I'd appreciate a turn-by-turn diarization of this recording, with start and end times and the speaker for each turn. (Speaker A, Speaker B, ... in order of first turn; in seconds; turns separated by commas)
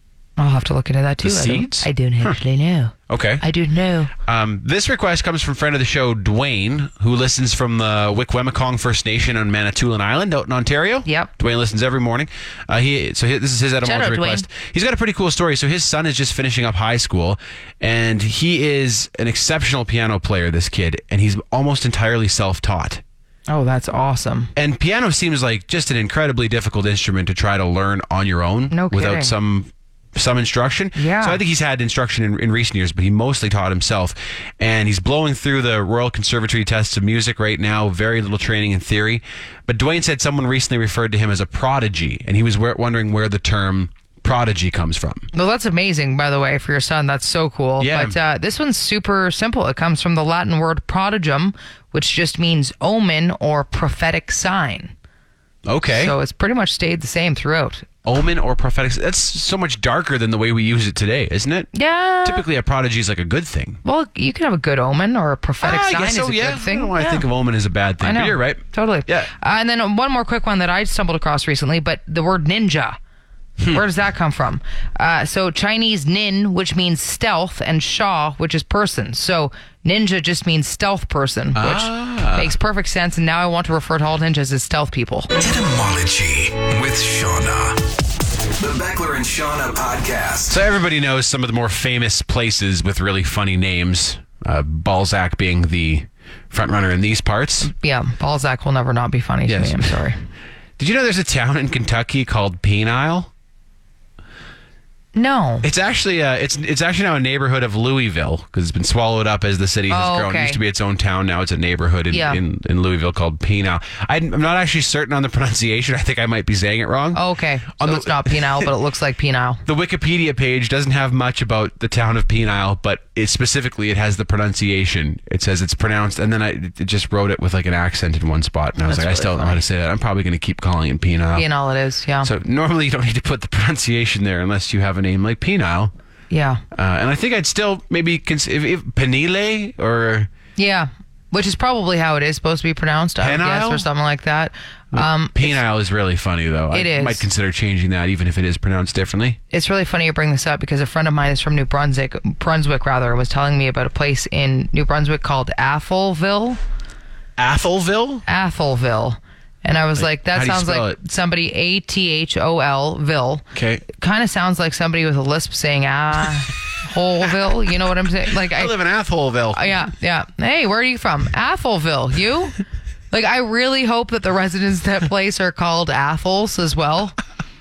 Speaker A: 0.4-4.1, Speaker B: 1.2-2.4, Speaker B: 3.1-3.4, Speaker B: 4.2-23.0, Speaker A: 11.1-11.3, Speaker A: 13.8-14.5, Speaker A: 23.5-24.5, Speaker B: 24.6-45.3, Speaker A: 28.7-29.3, Speaker A: 30.9-31.4, Speaker A: 45.3-54.9, Speaker B: 47.8-48.1, Speaker B: 55.6-56.2, Speaker A: 55.9-57.9, Speaker B: 58.0-61.7, Speaker A: 61.7-62.5, Speaker B: 62.2-63.8, Speaker A: 63.9-67.3, Speaker B: 65.6-69.3, Speaker A: 68.0-73.0, Speaker A: 73.7-85.3, Speaker B: 81.5-82.6, Speaker C: 85.4-87.8, Speaker C: 88.6-90.6, Speaker B: 90.5-97.7, Speaker A: 97.6-100.2, Speaker B: 99.5-100.0, Speaker B: 100.8-103.3, Speaker A: 105.2-105.7, Speaker B: 105.6-117.2, Speaker A: 109.9-110.6, Speaker A: 112.1-112.4, Speaker A: 117.1-119.6, Speaker B: 117.8-118.7, Speaker B: 119.7-131.5, Speaker A: 128.8-129.6, Speaker A: 131.3-132.3, Speaker B: 132.2-135.9, Speaker A: 136.3-136.6, Speaker B: 136.7-140.3, Speaker A: 140.6-145.6, Speaker B: 143.2-143.8, Speaker B: 144.9-149.4, Speaker A: 146.7-147.2, Speaker A: 149.5-156.6, Speaker B: 157.4-158.2, Speaker A: 158.3-168.8, Speaker B: 160.0-161.0, Speaker B: 163.5-163.8, Speaker B: 168.5-169.9, Speaker A: 169.5-172.6, Speaker A: 173.1-177.2